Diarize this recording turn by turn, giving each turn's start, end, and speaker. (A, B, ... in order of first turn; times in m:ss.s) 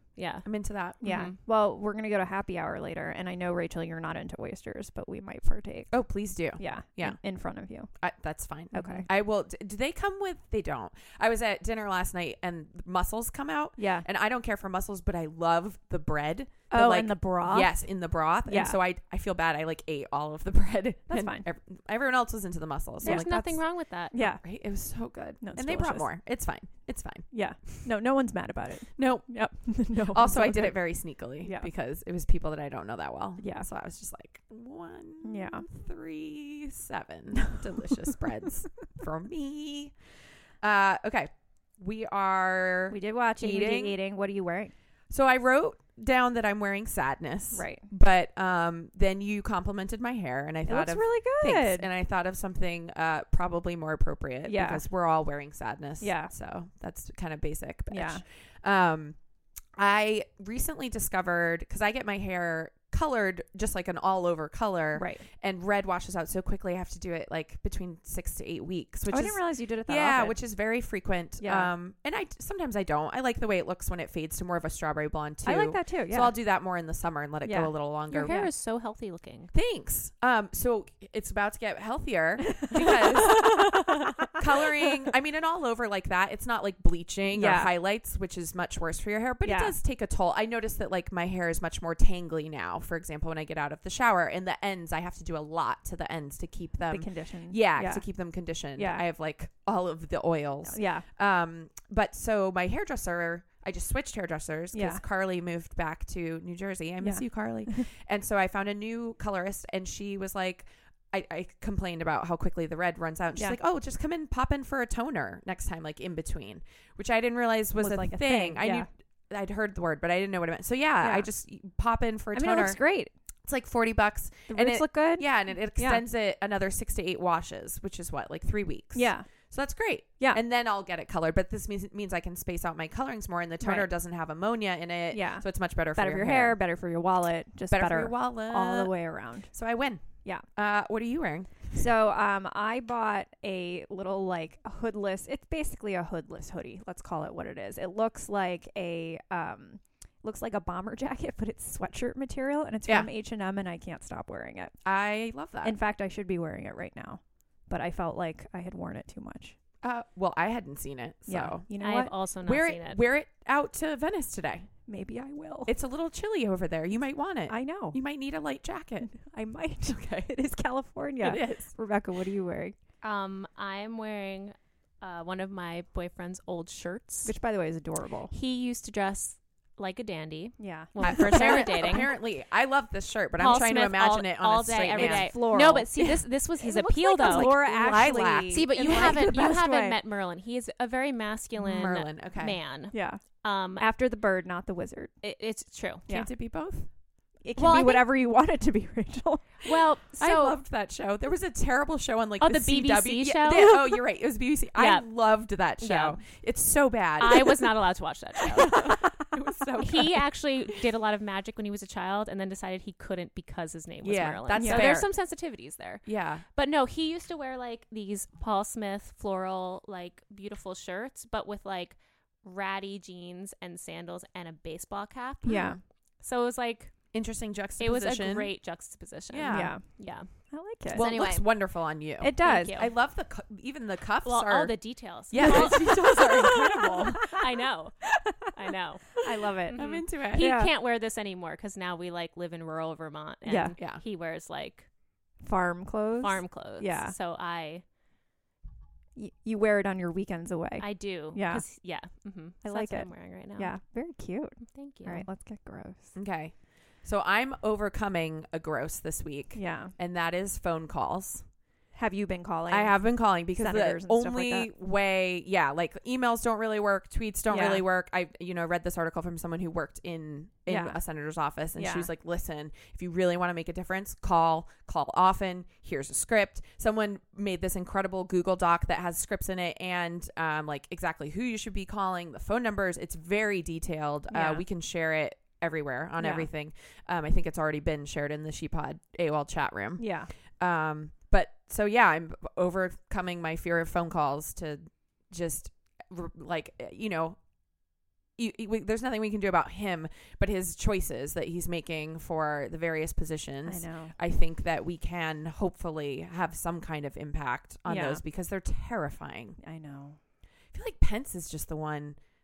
0:00.2-0:00.5 A
0:00.4-0:01.0 B
0:01.0-0:01.4 A
0:01.0-0:06.0 C
0:05.9-0:07.2 B
0:06.6-0:07.9 C
0:08.0-0:23.6 B
0:08.7-0:09.1 C
0:13.8-0:14.0 C
0:16.7-0:17.8 C
0:18.5-0:18.8 C
0:21.1-0:21.4 C
0:23.0-0:23.3 C
0:23.0-0:24.2 A
0:24.1-0:24.4 C
0:24.2-0:27.3 B
0:25.4-0:26.1 C
0:27.3-0:30.9 C
0:29.0-0:29.4 B
0:30.0-0:40.0 B
0:31.4-0:31.7 C
0:33.4-0:33.7 C
0:35.2-0:35.6 C
0:40.6-0:44.0 B
0:42.9-0:44.7 C
0:45.1-0:59.2 B
0:47.5-0:47.9 C
0:50.7-0:51.9 C
0:54.5-0:54.8 C
0:56.0-0:56.3 C
0:57.9-0:58.2 C
0:59.8-1:18.5 B
1:05.0-1:05.2 C
1:09.1-1:10.4 C
1:11.4-1:11.7 C
1:15.4-1:16.4 C
1:17.4-1:18.5 C
1:18.1-1:19.5 A
1:19.5-2:02.8 B
1:22.6-1:24.4 C
1:27.3-1:27.7 C
1:29.4-1:29.8 C
1:36.9-1:38.0 C
1:38.8-1:39.0 C
1:40.6-1:41.0 C
1:44.7-1:45.0 C
1:47.0-1:47.9 C
1:57.8-1:58.9 C
2:01.0-2:01.3 C
2:02.3-2:03.1 C
2:03.5-2:16.6 B
2:04.5-2:06.0 C
2:09.0-2:09.3 C
2:13.6-2:13.9 C
2:15.1-2:19.5 C
2:17.7-2:18.9 B
2:19.5-2:21.7 B
2:21.7-2:34.7 C
2:34.8-2:35.8 B
2:35.6-2:39.6 C
2:39.8-2:41.7 B
2:41.3-2:42.1 C
2:41.8-2:43.0 A
2:42.4-2:44.7 B
2:44.9-2:45.7 C
2:45.7-2:49.2 B
2:47.5-2:48.0 C
2:49.0-2:52.8 C
2:49.8-2:50.3 B
2:51.2-2:51.7 B
2:53.0-2:57.3 A
2:57.2-2:58.3 C
2:58.3-3:02.1 A
3:00.6-3:01.7 C
3:01.0-3:06.2 B
3:03.4-3:07.5 A
3:04.9-3:06.0 C
3:06.6-3:10.0 C
3:07.2-3:09.6 B
3:08.5-3:13.8 A
3:11.6-3:12.6 B
3:12.9-3:13.2 C
3:13.8-3:15.1 C
3:15.2-3:16.0 A
3:16.1-3:16.9 B
3:17.4-3:19.5 C
3:17.6-3:18.0 A
3:19.6-3:20.6 A
3:20.2-3:27.8 B
3:22.4-3:23.9 A
3:24.8-3:25.1 A
3:25.8-3:26.2 A
3:27.2-3:29.0 A
3:28.4-3:30.8 B
3:29.8-3:47.0 A
3:34.0-3:35.1 B
3:34.6-3:34.9 C
3:36.0-3:36.4 B
3:45.5-3:45.8 C
3:45.5-3:45.8 B
3:47.1-3:48.5 B
3:47.8-3:50.3 A
3:49.3-3:49.8 B
3:49.5-3:49.8 C
3:50.5-3:51.1 C
3:50.9-3:51.5 A
3:50.9-3:54.8 B
3:52.2-3:52.8 C
3:52.4-3:52.9 A
3:54.2-4:04.9 A
3:55.3-3:57.2 B
3:55.4-3:57.4 C
3:59.2-3:59.8 C
3:59.8-4:00.5 B
4:00.3-4:00.7 C
4:03.5-4:03.8 C
4:05.4-4:07.1 C
4:06.2-4:07.8 A
4:09.2-4:11.6 C
4:10.8-4:13.7 A
4:12.6-4:16.1 C
4:14.7-4:15.3 A
4:16.1-4:21.4 B
4:19.5-4:19.9 C
4:21.9-4:23.0 C
4:22.7-4:57.4 B
4:23.5-4:24.7 C
4:27.5-4:27.8 C
4:30.7-4:31.0 C
4:31.8-4:32.1 C
4:44.3-4:44.6 C
4:46.2-4:46.5 C
4:50.0-4:50.3 C
4:58.4-5:09.6 B
5:03.6-5:04.1 C
5:07.9-5:08.2 C
5:09.6-5:10.2 C
5:10.7-5:12.2 B